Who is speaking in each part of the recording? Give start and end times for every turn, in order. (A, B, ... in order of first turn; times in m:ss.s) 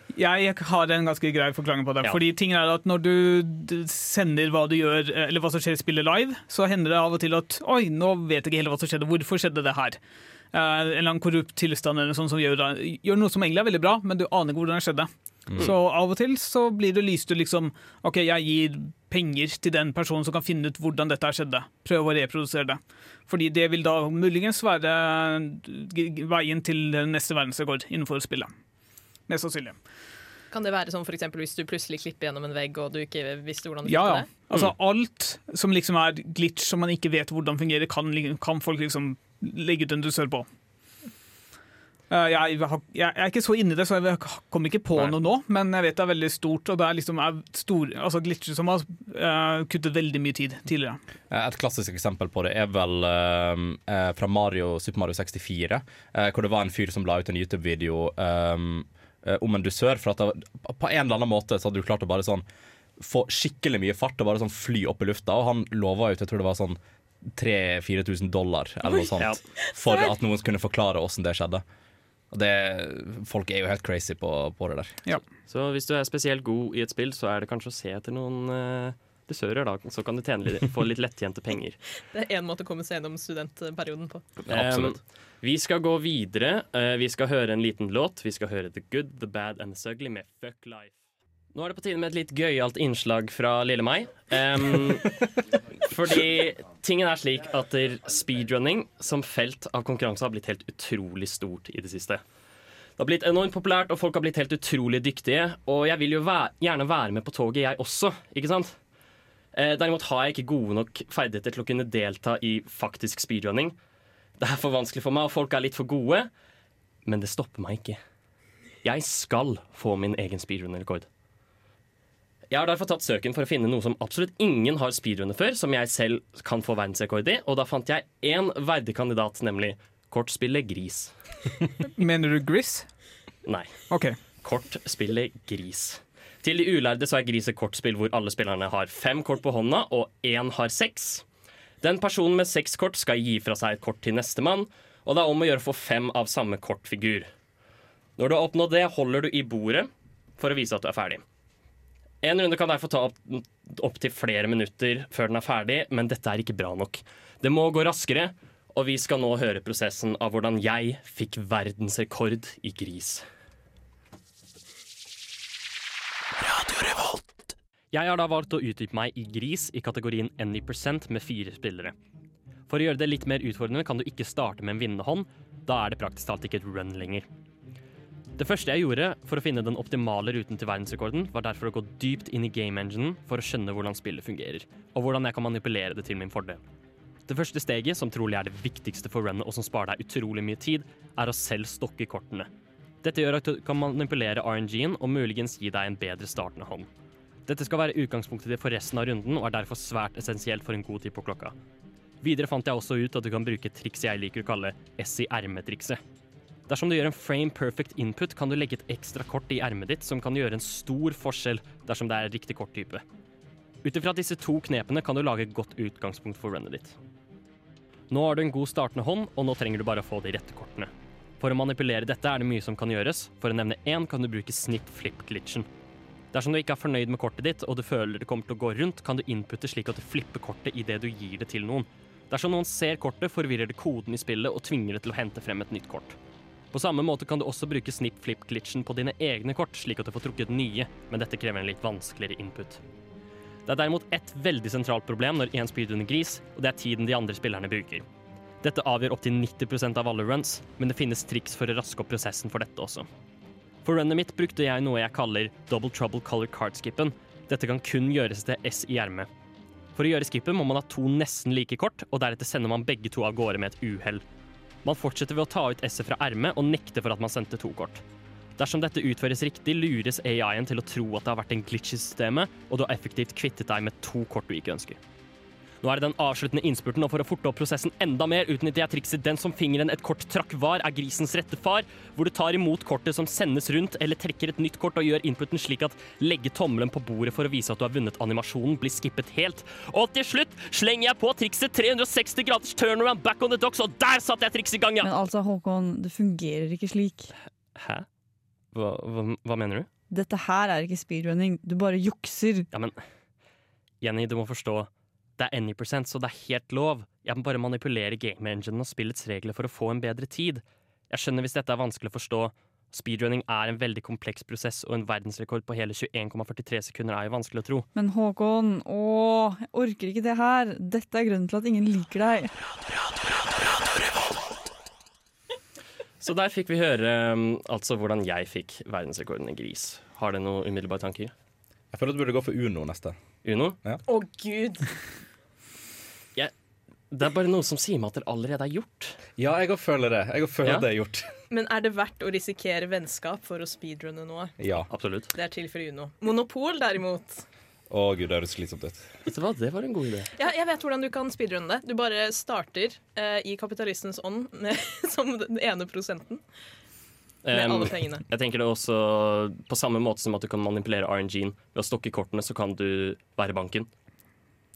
0:00.1-0:10.0 A
0:10.5-0:28.5 A
0:29.3-0:29.8 A
0:30.5-0:34.3 B
0:33.8-0:40.4 A
0:42.1-0:51.0 A
0:51.3-1:02.4 C
1:03.0-1:06.8 C
1:07.4-1:11.6 C
1:08.8-1:09.1 B
1:09.6-1:10.1 B
1:12.3-1:15.1 C
1:15.5-1:21.8 D
1:22.1-1:24.2 B
1:24.5-1:25.0 C
1:24.5-1:30.9 D
1:31.5-1:35.2 D
1:35.8-1:42.2 D
1:43.0-1:48.8 D
1:49.5-1:53.8 D
1:54.4-1:56.3 D
1:57.0-1:58.0 D
1:58.8-2:01.1 D
2:02.5-2:11.1 D
2:12.0-2:12.9 A
2:13.4-2:13.8 D
2:13.9-2:14.2 A
2:14.4-2:21.2 D
2:21.8-2:27.3 D
2:28.2-2:31.2 D
2:32.2-2:43.2 D
2:47.9-2:51.9 D
2:52.7-2:57.3 D
2:58.4-3:06.6 D
3:07.3-3:12.5 D
3:13.0-3:16.9 D
3:17.5-3:21.5 D
3:22.2-3:26.0 D
3:26.7-3:33.0 D
3:33.8-3:37.0 D
3:38.1-3:45.7 D
3:46.3-3:56.2 D
3:56.7-4:02.8 D
4:03.6-4:08.0 D
4:08.6-4:13.1 D
4:13.8-4:19.3 D
4:19.9-4:24.2 D
4:24.8-4:28.0 D
4:28.6-4:35.0 D
4:35.8-4:55.1 D
4:55.0-4:57.3 E
4:57.8-4:58.0 D
4:58.7-4:59.9 D
5:00.1-5:02.7 E
5:02.7-5:03.0 D
5:04.0-5:17.9 D
5:17.9-5:22.5 E
5:26.2-5:31.3 D
5:31.9-5:33.2 C
5:33.4-5:33.8 D
5:34.1-5:34.9 B
5:37.1-5:39.2 D
5:39.4-5:41.3 C
5:41.5-5:44.6 B
5:44.6-5:44.9 C
5:44.9-5:45.3 D
5:45.3-5:47.4 B
5:47.9-5:49.1 C
5:49.2-5:50.3 D
5:50.4-5:56.4 B
5:57.4-6:03.9 D
5:57.5-5:58.2 B